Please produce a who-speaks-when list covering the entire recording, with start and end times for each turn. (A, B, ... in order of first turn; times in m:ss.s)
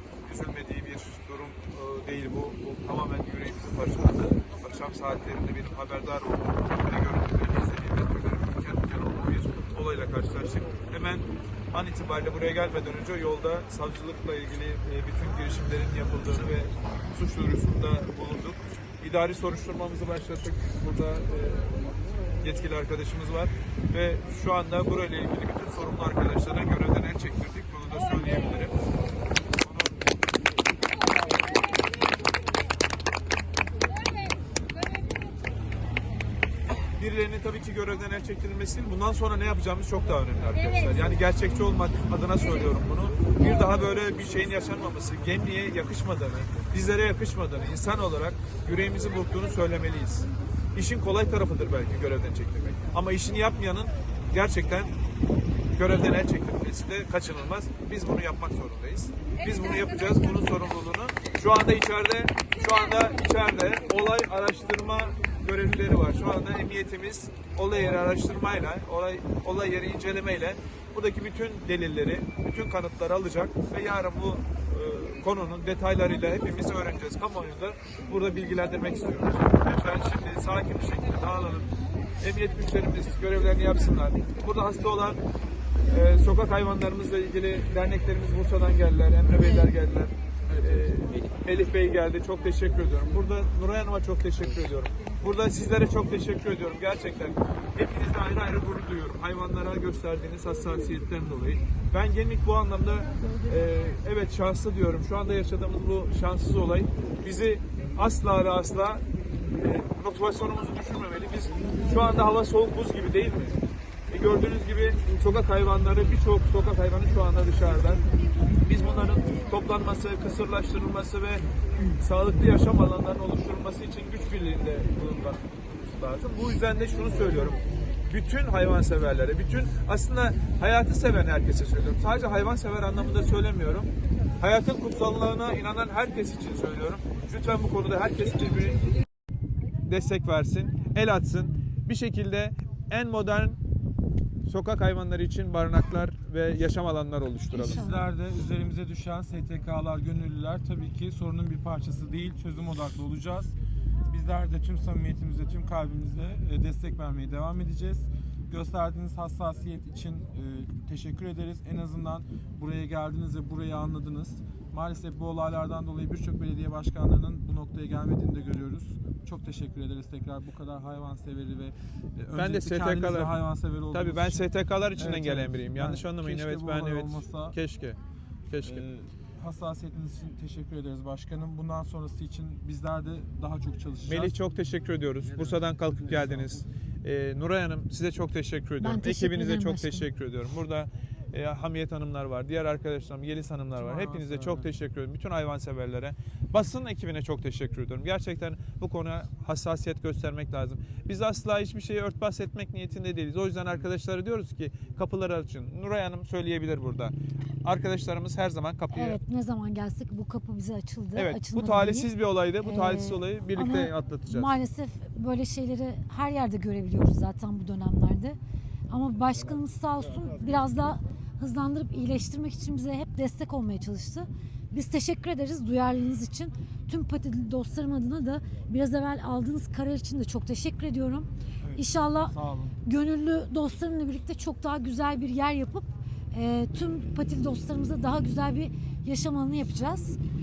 0:00.2-0:21.8 A
0:22.4-0:28.8 A
0:29.6-0:30.0 A
0:37.0-0:54.9 A
0:55.7-1:25.2 A
1:25.9-1:49.0 A
1:49.6-1:53.6 A
1:54.1-1:58.0 A
1:58.6-2:01.4 A
2:02.0-2:18.8 A
2:19.8-2:23.6 A
2:24.4-2:27.9 A
2:27.5-2:28.0 B
2:27.6-2:33.5 C
2:34.1-2:57.6 C
2:52.3-2:53.3 A
2:53.9-2:58.9 A
2:58.6-3:04.4 C
3:04.0-3:29.2 A
3:05.3-3:06.6 C
3:08.8-3:10.1 B
3:13.7-3:14.7 C
3:28.9-3:32.1 B
3:31.1-3:34.5 A
3:32.6-3:38.4 B
3:38.9-4:00.2 B
3:51.6-3:52.8 C